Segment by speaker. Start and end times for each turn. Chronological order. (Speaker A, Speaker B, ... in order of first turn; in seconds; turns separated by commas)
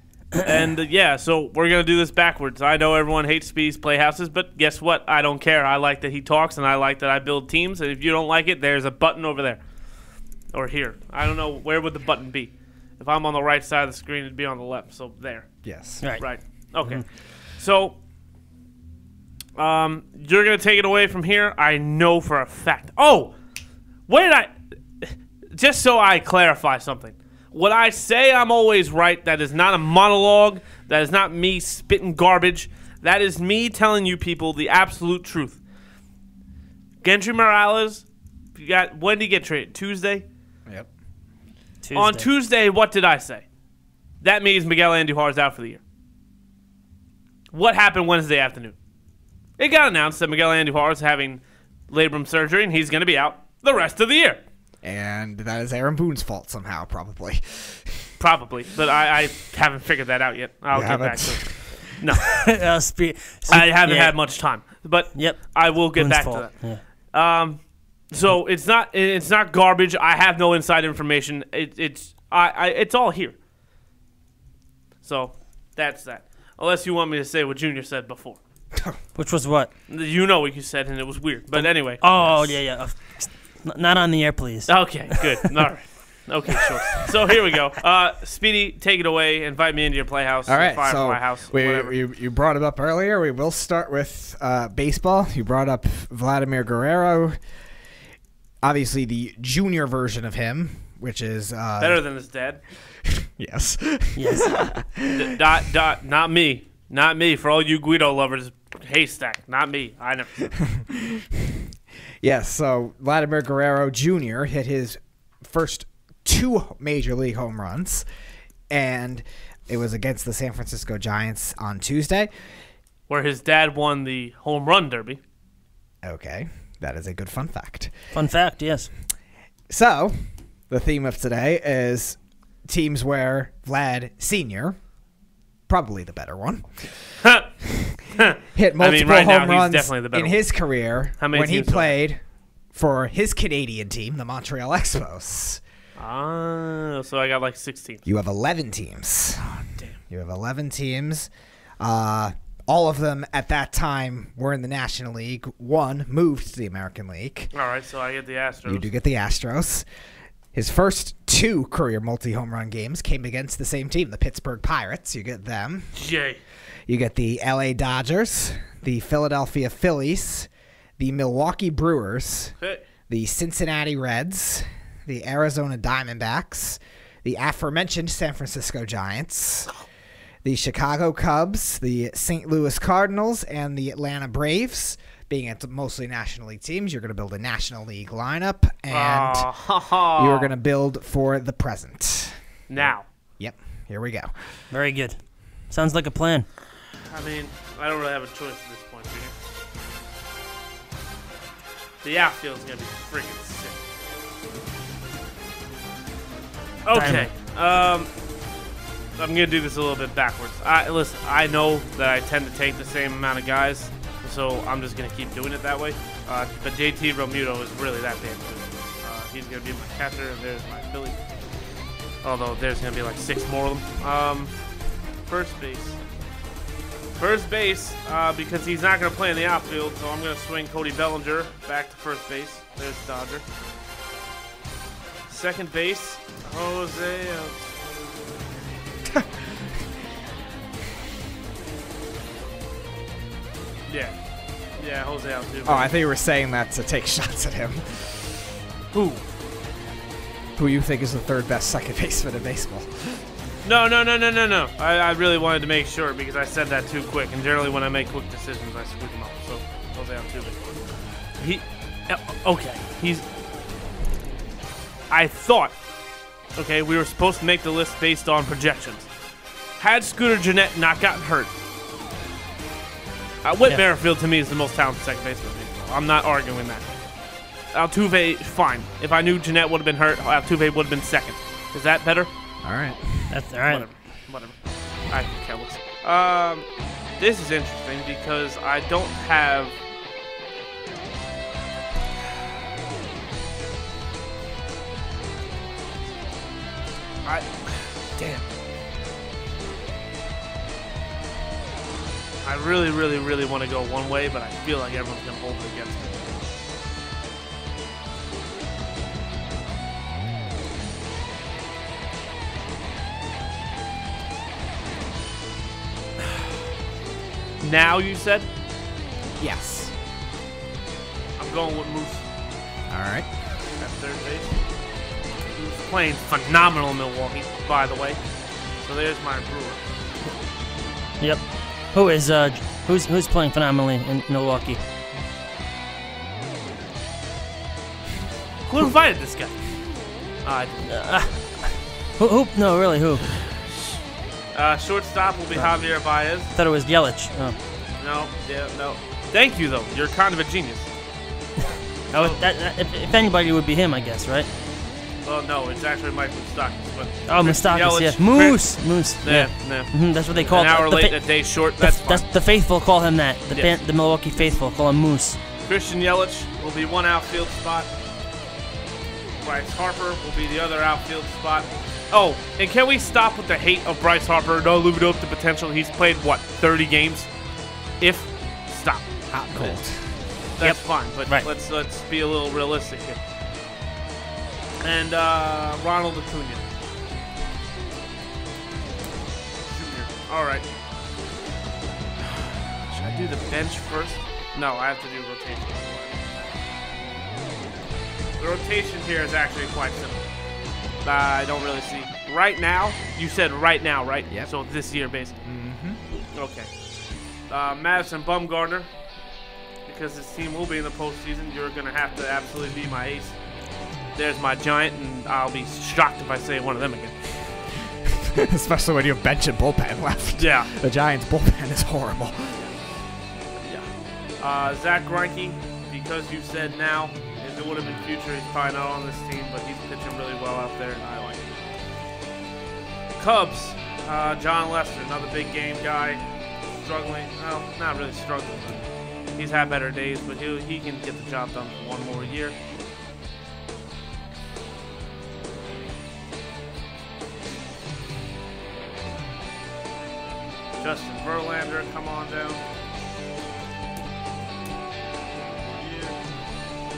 Speaker A: 0.4-9.6, Speaker A: 10.5-15.5, Speaker B: 15.6-16.0, Speaker A: 16.1-17.0, Speaker A: 17.6-18.0, Speaker A: 19.6-23.3, Speaker A: 24.1-35.6, Speaker A: 37.0-40.2, Speaker C: 41.8-42.2, Speaker A: 41.9-43.4, Speaker A: 44.2-45.8, Speaker A: 47.5-48.8, Speaker A: 49.6-54.4, Speaker B: 54.8-57.9, Speaker A: 58.2-62.4, Speaker B: 60.7-61.4, Speaker C: 62.4-64.2, Speaker A: 63.5-67.6, Speaker C: 65.1-66.8, Speaker A: 68.1-73.3, Speaker A: 75.0-78.4, Speaker C: 79.2-79.7, Speaker A: 79.9-82.6, Speaker C: 82.0-85.2, Speaker A: 84.7-91.9, Speaker B: 90.5-97.4, Speaker B: 98.6-102.0, Speaker A: 101.8-102.6, Speaker B: 103.1-105.3, Speaker C: 104.1-104.6, Speaker A: 105.1-110.6, Speaker B: 110.7-111.6, Speaker B: 112.2-118.0, Speaker B: 118.7-122.3, Speaker A: 123.1-125.2, Speaker B: 126.0-127.9, Speaker C: 128.1-128.9, Speaker B: 129.7-130.1, Speaker B: 130.7-134.8, Speaker B: 135.7-136.7, Speaker A: 137.2-137.5, Speaker A: 138.1-140.5, Speaker B: 138.5-142.2, Speaker A: 141.2-141.9, Speaker B: 142.7-145.6, Speaker A: 146.0-148.0, Speaker B: 148.1-149.4, Speaker A: 149.5-150.0, Speaker B: 150.1-157.5, Speaker A: 157.5-158.9, Speaker B: 158.7-159.9, Speaker B: 160.5-165.9, Speaker A: 165.9-166.4, Speaker B: 166.9-172.6, Speaker B: 173.1-179.7, Speaker B: 180.4-194.3, Speaker A: 188.9-190.5, Speaker A: 192.7-193.1, Speaker C: 194.7-195.2, Speaker C: 195.7-196.5, Speaker A: 197.1-199.3, Speaker A: 202.0-203.8, Speaker A: 206.8-208.1, Speaker C: 206.9-207.3, Speaker A: 209.2-221.2, Speaker A: 222.2-224.5, Speaker A: 225.3-226.0, Speaker A: 227.2-233.4, Speaker A: 235.3-238.3, Speaker A: 243.9-244.2, Speaker A: 244.8-245.9, Speaker B: 245.7-247.8, Speaker A: 248.9-249.2, Speaker B: 250.6-253.2, Speaker A: 253.6-260.8, Speaker A: 261.4-263.2, Speaker A: 265.1-265.8, Speaker A: 266.6-269.1, Speaker A: 269.8-271.5, Speaker A: 273.4-276.9, Speaker A: 277.7-282.3, Speaker B: 282.6-283.3, Speaker C: 283.3-283.9, Speaker A: 283.7-284.6, Speaker A: 285.1-286.7, Speaker A: 287.2-289.8, Speaker A: 297.2-298.4, Speaker A: 302.4-306.4, Speaker A: 317.6-318.5, Speaker B: 319.4-319.9, Speaker A: 321.4-322.3, Speaker B: 322.9-323.3, Speaker A: 323.8-324.5, Speaker A: 325.4-328.2, Speaker A: 328.8-329.8, Speaker C: 331.9-334.8, Speaker A: 338.7-339.6, Speaker A: 340.4-341.1, Speaker C: 340.9-343.3, Speaker A: 344.5-346.5, Speaker C: 346.5-347.6, Speaker A: 348.0-350.9, Speaker C: 352.1-354.5, Speaker A: 352.1-352.4, Speaker A: 355.2-362.2, Speaker C: 357.3-361.2, Speaker C: 361.8-365.4, Speaker A: 365.6-367.9, Speaker A: 369.4-377.3, Speaker A: 378.0-379.8, Speaker B: 379.3-380.0, Speaker A: 380.6-383.2, Speaker C: 380.6-381.5, Speaker A: 384.8-386.6, Speaker A: 389.7-390.7, Speaker A: 392.2-396.5, Speaker A: 398.4-400.3, Speaker A: 401.0-405.5, Speaker B: 405.4-406.0, Speaker A: 406.3-406.7, Speaker A: 407.5-408.9, Speaker A: 409.9-413.4, Speaker A: 414.1-417.1, Speaker B: 418.1-422.6, Speaker A: 420.4-420.7, Speaker A: 423.6-431.5, Speaker A: 433.2-438.8, Speaker A: 439.4-442.6, Speaker A: 450.8-452.6, Speaker A: 455.7-456.2